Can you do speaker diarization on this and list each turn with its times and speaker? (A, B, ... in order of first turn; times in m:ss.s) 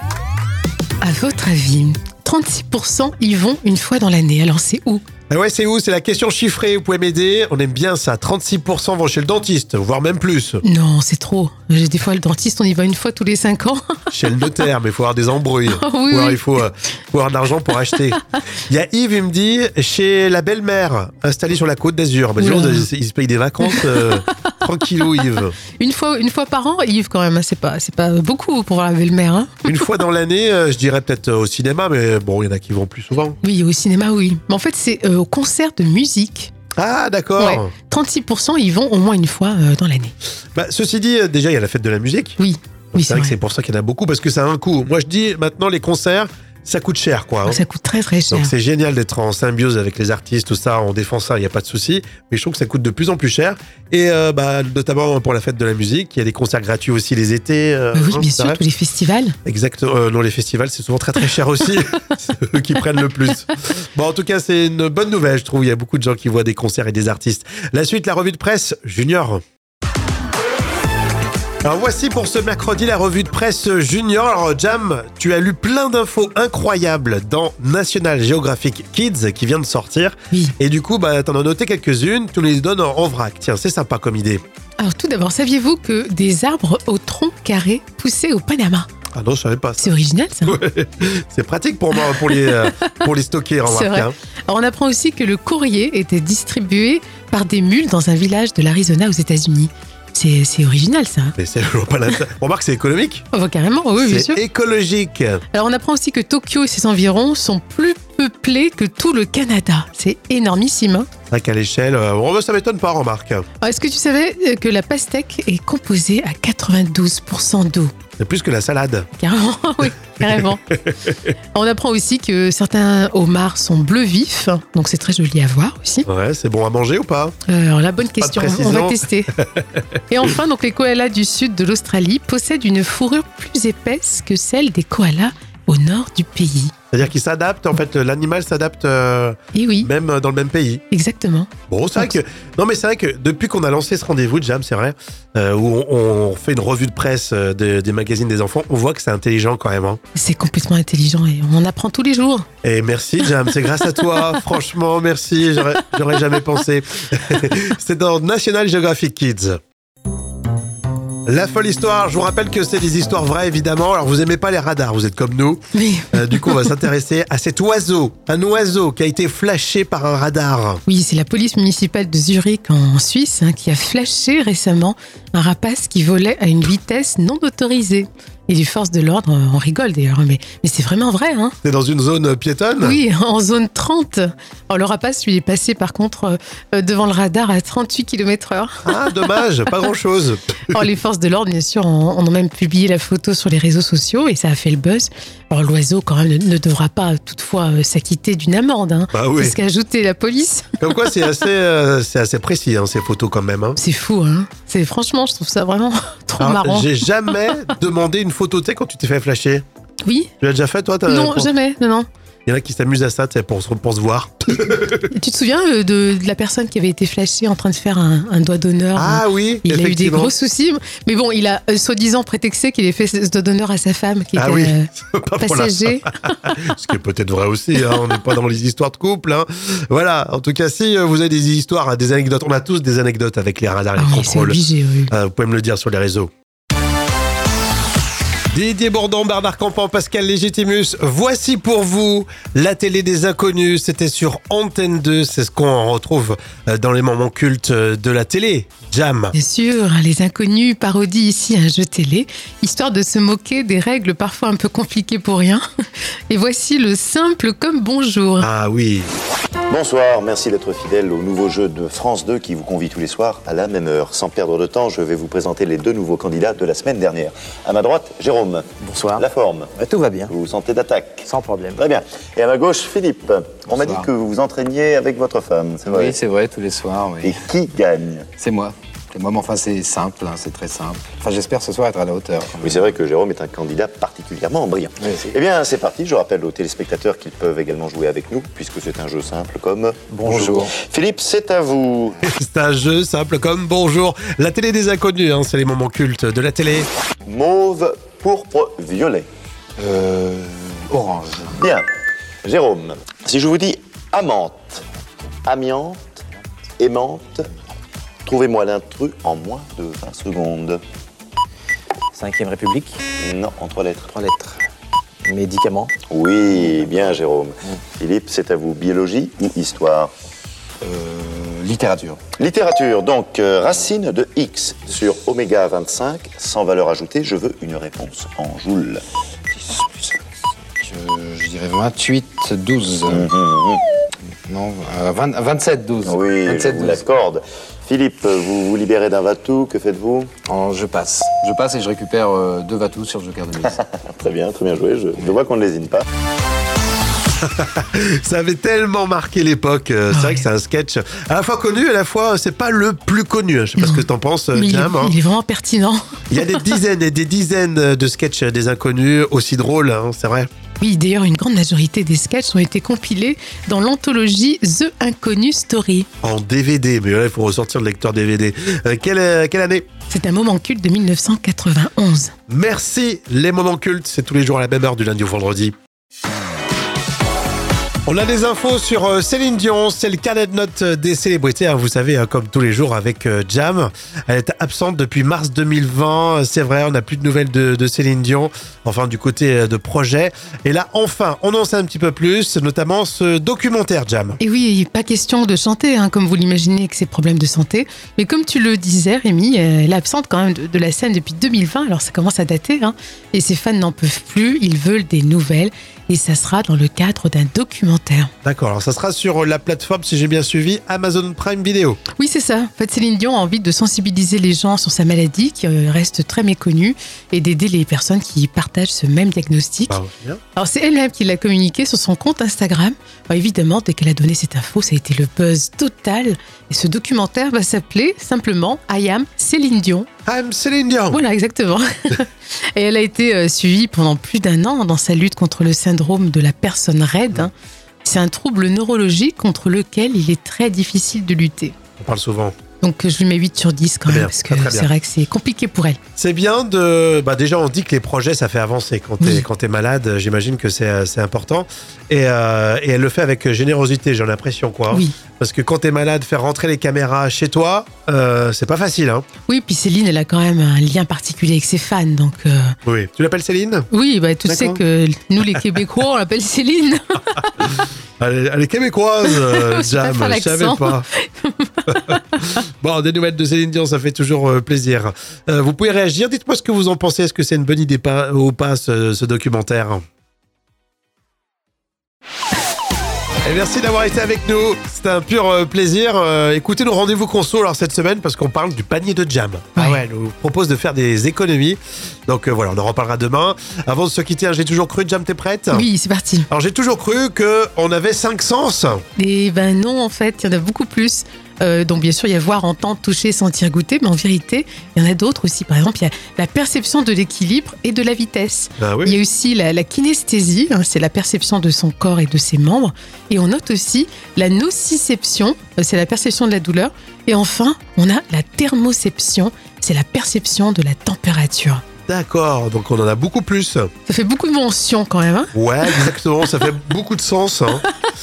0:01.0-0:05.0 A
0:05.3-0:10.6 B
0:10.6-0:14.6 A
0:14.1-0:25.6 B
0:15.7-0:16.6 A
0:22.4-0:22.9 A
0:23.6-0:24.5 A
0:25.8-0:29.9 A
0:29.7-0:33.4 B
0:33.4-0:36.5 A
0:36.8-0:37.7 B
0:37.4-0:40.1 A
0:40.5-0:42.4 B
0:42.4-0:43.4 A
0:42.9-0:47.6 B
0:47.4-0:48.5 A
0:48.3-0:58.6 B
0:57.9-0:59.4 A
0:59.4-1:09.4 B
1:11.6-1:24.4 B
1:24.8-1:28.9 A
1:29.1-1:34.1 B
1:29.8-1:30.6 A
1:32.0-1:32.7 A
1:33.6-1:41.4 A
1:41.4-1:43.2 B
1:43.3-1:44.4 A
1:44.0-1:45.4 B
1:45.5-1:51.1 A
1:51.3-1:53.4 B
1:53.6-1:57.9 A
1:58.2-1:59.1 B
1:59.2-2:00.7 A
2:00.2-2:00.9 B
2:01.5-2:06.0 A
2:06.1-2:07.3 B
2:07.5-2:09.3 A
2:08.1-2:10.0 B
2:10.1-2:16.7 A
2:16.9-2:20.8 B
2:19.5-2:19.9 A
2:20.9-2:22.2 A
2:21.7-2:30.0 B
2:30.1-2:32.4 A
2:32.6-2:39.6 B
2:33.2-2:33.5 A
2:41.2-2:45.6 B
2:45.7-2:46.9 A
2:46.1-2:50.8 B
2:50.8-3:01.5 A
3:01.6-3:03.0 B
3:02.8-3:09.4 A
3:08.8-3:10.8 B
3:10.7-3:20.8 A
3:19.1-3:19.6 B
3:20.8-3:23.8 B
3:23.8-3:27.3 A
3:26.4-3:29.6 B
3:30.0-3:30.3 A
3:30.4-3:31.5 B
3:31.1-3:32.0 A
3:32.4-3:35.1 B
3:35.0-3:46.2 A
3:39.0-3:40.3 B
3:44.4-3:56.3 B
3:54.0-3:55.1 A
3:58.5-4:09.3 B
4:09.3-4:15.6 A
4:16.3-4:18.5 A
4:18.4-4:19.1 B
4:19.7-4:29.7 C
4:28.8-4:29.2 D
4:29.8-4:30.3 D
4:30.3-4:36.2 C
4:31.2-4:31.8 D
4:33.7-4:34.1 E
4:35.9-4:37.4 E
4:37.2-4:38.3 C
4:38.4-4:42.9 E
4:42.6-4:52.2 C
4:45.0-4:45.3 E
4:50.2-4:50.7 E
4:52.2-4:56.9 B
4:57.2-4:59.3 C
4:59.8-5:01.6 E
5:01.6-5:01.8 C
5:02.4-5:04.8 C
5:05.4-5:06.2 C
5:06.8-5:07.5 C
5:08.2-5:10.8 C
5:12.1-5:13.0 D
5:13.2-5:14.1 C
5:14.1-5:14.6 D
5:15.2-5:15.9 D
5:16.0-5:20.1 C
5:20.8-5:22.2 E
5:22.3-5:29.0 C
5:29.6-5:30.2 E
5:30.8-5:33.3 E
5:33.1-5:33.8 C
5:34.4-5:37.0 E
5:36.0-5:40.3 C
5:40.4-5:43.8 E
5:43.8-5:46.0 C
5:47.4-5:55.1 B
5:50.1-5:50.5 A
5:53.8-5:56.6 A
5:56.3-6:00.5 B
6:00.8-6:06.1 A
6:06.2-6:09.8 B
6:10.1-6:12.3 A
6:12.5-6:15.7 B
6:18.0-6:34.4 B
6:34.4-6:48.3 A
6:48.4-6:52.0 B
6:52.2-7:00.0 A
6:59.9-7:00.4 B
7:00.5-7:10.1 A
7:10.2-7:11.2 B
7:11.1-7:17.5 A
7:18.0-7:21.7 A
7:22.0-7:22.5 B
7:22.8-7:26.0 A
7:24.0-7:24.9 B
7:26.2-7:39.2 B
7:29.2-7:29.4 A
7:34.9-7:35.2 A
7:39.5-7:42.8 A
7:42.8-7:43.9 B
7:43.9-7:47.4 A
7:44.4-7:44.8 B
7:48.2-7:51.0 B
7:49.3-7:52.2 A
7:51.9-8:00.0 B
8:03.4-8:15.9 B
8:09.8-8:10.0 A
8:15.7-8:16.5 A
8:16.5-8:19.0 B
8:19.2-8:41.8 A
8:28.8-8:29.2 B
8:42.0-8:43.9 B
8:44.1-8:46.2 A
8:45.5-8:47.8 B